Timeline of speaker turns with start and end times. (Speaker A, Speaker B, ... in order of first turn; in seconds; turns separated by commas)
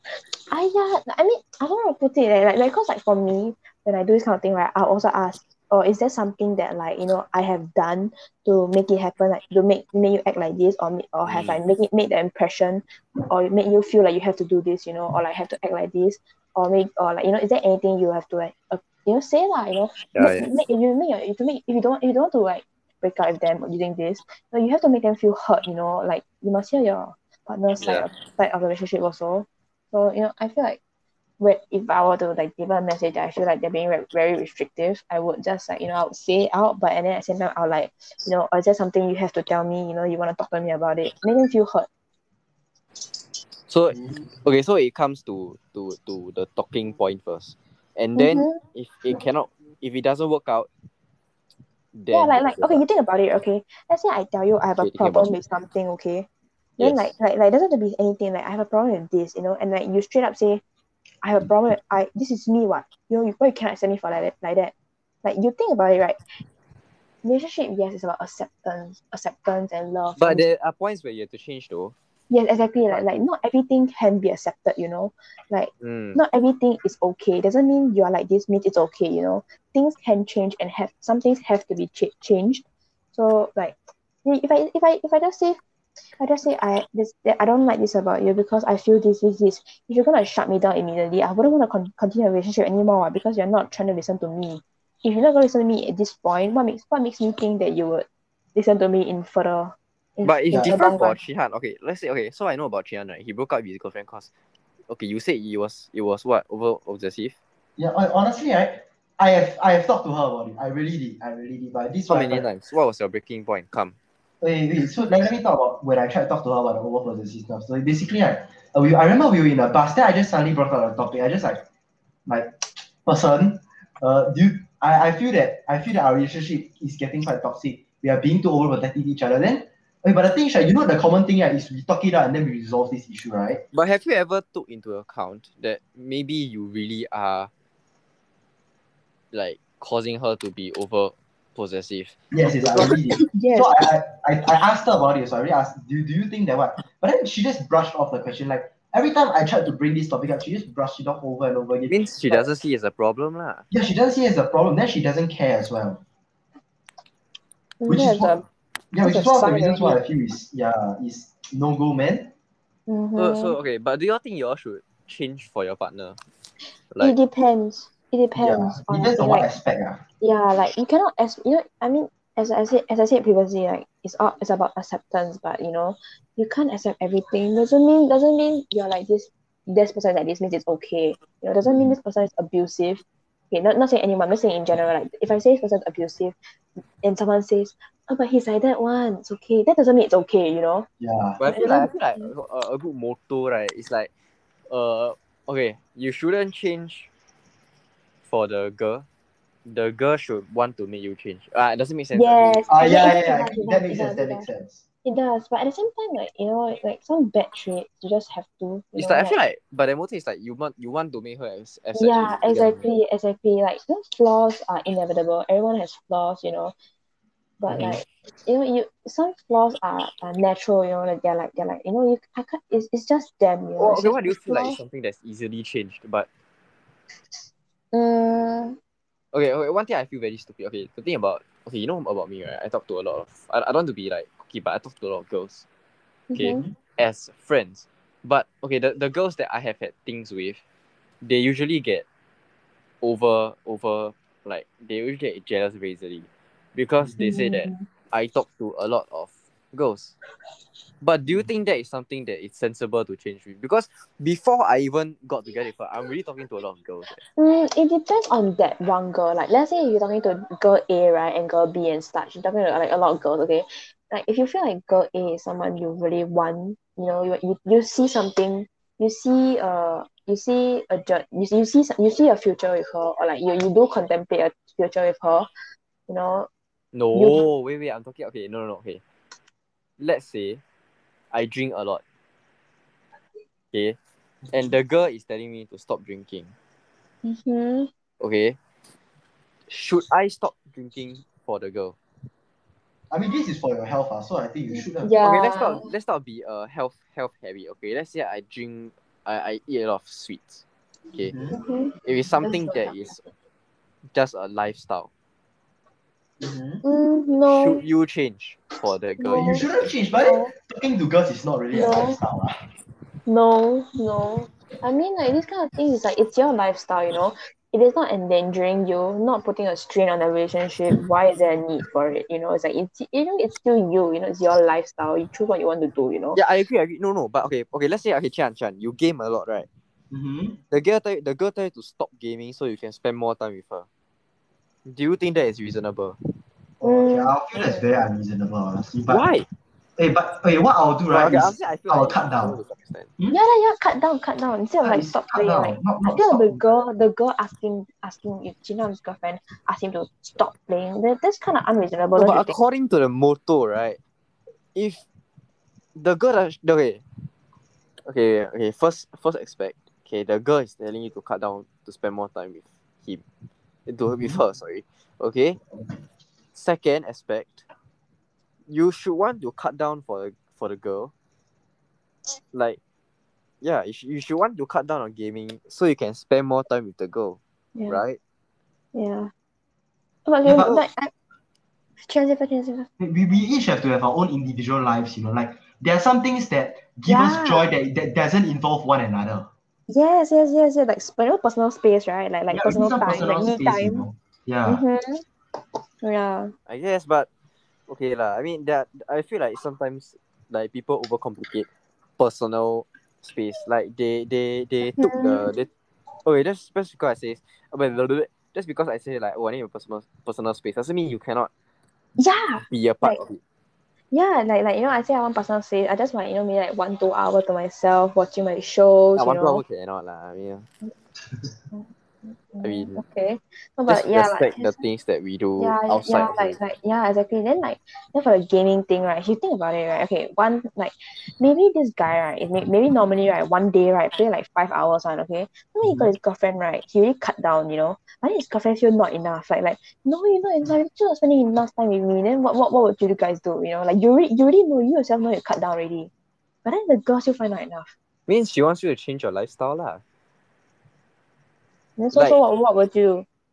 Speaker A: 0.5-30.8, Speaker B: 11.2-11.6, Speaker B: 20.1-20.5, Speaker B: 27.8-28.1, Speaker A: 31.4-41.9, Speaker B: 43.7-50.7, Speaker A: 48.1-48.6, Speaker B: 51.9-52.8, Speaker A: 52.1-56.3, Speaker B: 54.8-55.3, Speaker B: 56.8-57.1, Speaker A: 56.8-60.6, Speaker A: 61.2-64.7, Speaker A: 65.2-66.4, Speaker A: 67.2-70.5, Speaker B: 70.2-71.9, Speaker A: 72.3-85.6, Speaker B: 72.9-73.2, Speaker B: 75.8-76.2, Speaker A: 86.1-101.2, Speaker B: 100.2-104.3, Speaker B: 104.9-107.3, Speaker C: 107.8-112.4, Speaker B: 112.1-113.9, Speaker C: 114.4-121.6, Speaker C: 122.3-133.6, Speaker B: 133.7-137.5, Speaker B: 139.3-142.2, Speaker C: 142.3-152.4, Speaker A: 142.8-143.8, Speaker B: 151.9-153.6, Speaker C: 153.7-156.0, Speaker A: 157.8-158.4, Speaker C: 157.9-158.4, Speaker C: 158.9-162.3, Speaker A: 159.0-160.0, Speaker A: 162.9-163.6, Speaker B: 163.2-166.2, Speaker A: 167.0-169.5, Speaker C: 168.4-170.0, Speaker A: 170.2-186.3, Speaker A: 187.0-190.9, Speaker C: 191.0-191.4, Speaker B: 191.4-194.1, Speaker A: 191.5-192.3, Speaker B: 194.7-197.1, Speaker B: 198.3-199.0, Speaker B: 199.7-202.7, Speaker A: 202.1-204.5, Speaker C: 202.7-204.8, Speaker A: 205.0-209.4, Speaker B: 209.0-212.8, Speaker A: 211.9-216.7, Speaker A: 217.6-224.8, Speaker B: 223.8-226.3, Speaker A: 227.9-228.8, Speaker B: 229.3-235.6, Speaker A: 236.3-236.6, Speaker B: 236.4-240.6, Speaker B: 241.2-242.0, Speaker B: 243.0-250.1, Speaker A: 247.2-247.9, Speaker B: 251.0-257.2, Speaker A: 257.3-275.5, Speaker A: 276.1-276.5, Speaker B: 276.9-279.0, Speaker A: 277.1-277.4, Speaker B: 280.0-280.6, Speaker B: 281.3-282.0, Speaker B: 283.7-284.0, Speaker B: 284.5-286.5, Speaker A: 287.2-287.9, Speaker B: 288.2-288.6, Speaker B: 289.7-291.9, Speaker C: 293.1-295.1, Speaker A: 295.0-295.9, Speaker B: 295.2-301.3, Speaker C: 301.3-301.6, Speaker A: 301.5-303.0, Speaker B: 302.0-303.2, Speaker B: 304.1-305.1, Speaker C: 306.4-306.8, Speaker A: 306.8-307.8, Speaker B: 307.5-309.7, Speaker A: 309.2-309.6, Speaker C: 309.4-312.6, Speaker A: 310.2-310.5, Speaker A: 311.7-312.2, Speaker A: 313.2-326.4, Speaker B: 326.3-329.7, Speaker C: 330.1-330.6, Speaker B: 330.7-333.9, Speaker B: 334.9-336.1, Speaker C: 336.8-339.2, Speaker A: 336.8-337.9, Speaker B: 339.1-339.5, Speaker C: 340.0-342.6, Speaker B: 341.1-343.1, Speaker A: 343.3-352.5, Speaker C: 344.8-346.7, Speaker B: 352.2-354.0, Speaker B: 354.7-355.0, Speaker B: 355.9-357.0, Speaker B: 358.1-363.2, Speaker B: 363.9-365.6, Speaker B: 366.5-367.6, Speaker B: 368.7-371.1, Speaker B: 372.4-372.8, Speaker B: 373.6-378.2, Speaker A: 377.7-378.0, Speaker A: 378.9-379.3, Speaker A: 380.2-381.1, Speaker C: 380.4-380.8, Speaker A: 382.0-382.9, Speaker C: 383.0-389.5, Speaker A: 387.0-387.7, Speaker A: 389.9-394.1, Speaker C: 392.5-394.8, Speaker A: 394.6-395.2, Speaker A: 396.0-396.5, Speaker B: 396.7-397.3, Speaker B: 397.9-401.7, Speaker B: 402.2-405.7, Speaker A: 404.9-405.5, Speaker B: 406.2-411.5, Speaker A: 412.2-413.2, Speaker B: 412.7-413.4, Speaker A: 414.1-419.6, Speaker B: 419.1-420.7, Speaker A: 421.7-424.8, Speaker B: 422.6-423.0, Speaker B: 423.9-426.6, Speaker A: 425.6-446.1, Speaker C: 435.9-436.1, Speaker A: 446.6-447.9, Speaker B: 448.3-450.0, Speaker A: 452.0-453.2